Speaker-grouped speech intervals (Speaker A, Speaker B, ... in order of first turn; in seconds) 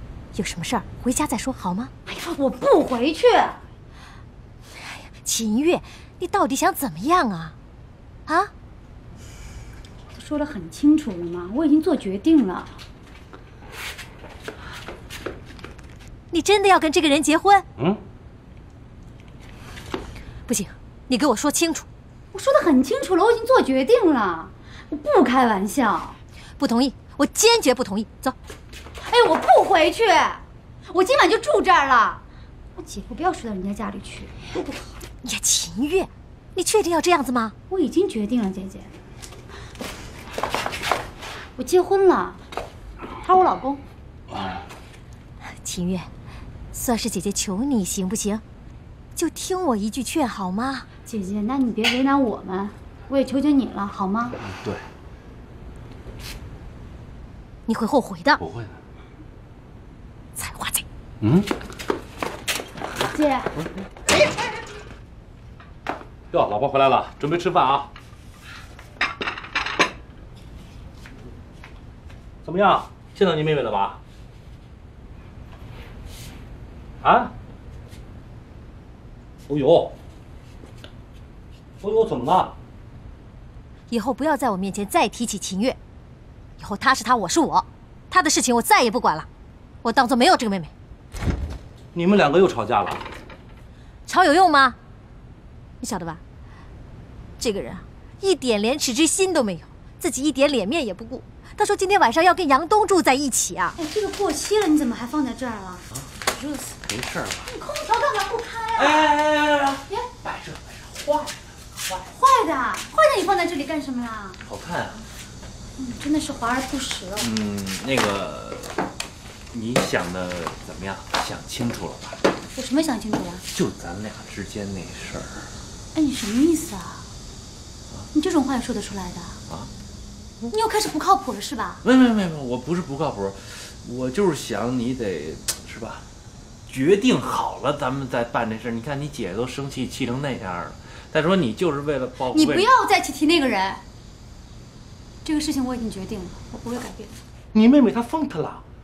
Speaker A: 0.3-1.9, 4.8-7.5, 16.3-17.6, 20.5-21.9, 26.6-28.4, 35.2-37.5, 45.6-46.1, 46.7-48.4, 49.1-50.9, 57.7-58.4, 60.4-60.8, 83.9-85.8, 86.6-89.3, 89.8-90.7, 94.1-94.8, 95.8-96.2, 97.4-103.8
Speaker B: 2.0-3.6, 10.1-12.8, 22.3-26.2, 29.0-32.2, 32.8-34.7, 37.7-38.9, 41.5-42.4, 43.2-43.8, 51.0-54.4, 63.0-63.5, 103.8-106.7, 107.5-109.1, 112.1-114.4, 115.8-117.3, 122.5-123.4, 125.9-127.0, 128.1-129.4, 130.5-131.8, 142.3-143.8, 145.2-147.1
Speaker C: 54.4-54.9, 58.4-58.8, 61.2-61.5, 66.3-67.8, 106.8-107.5, 108.8-112.0, 114.4-115.0, 117.2-118.8, 119.5-122.2, 123.5-125.5, 131.8-136.0, 136.7-142.7
Speaker D: 72.5-74.0, 79.5-79.9, 81.8-82.5, 91.9-93.0, 147.5-148.6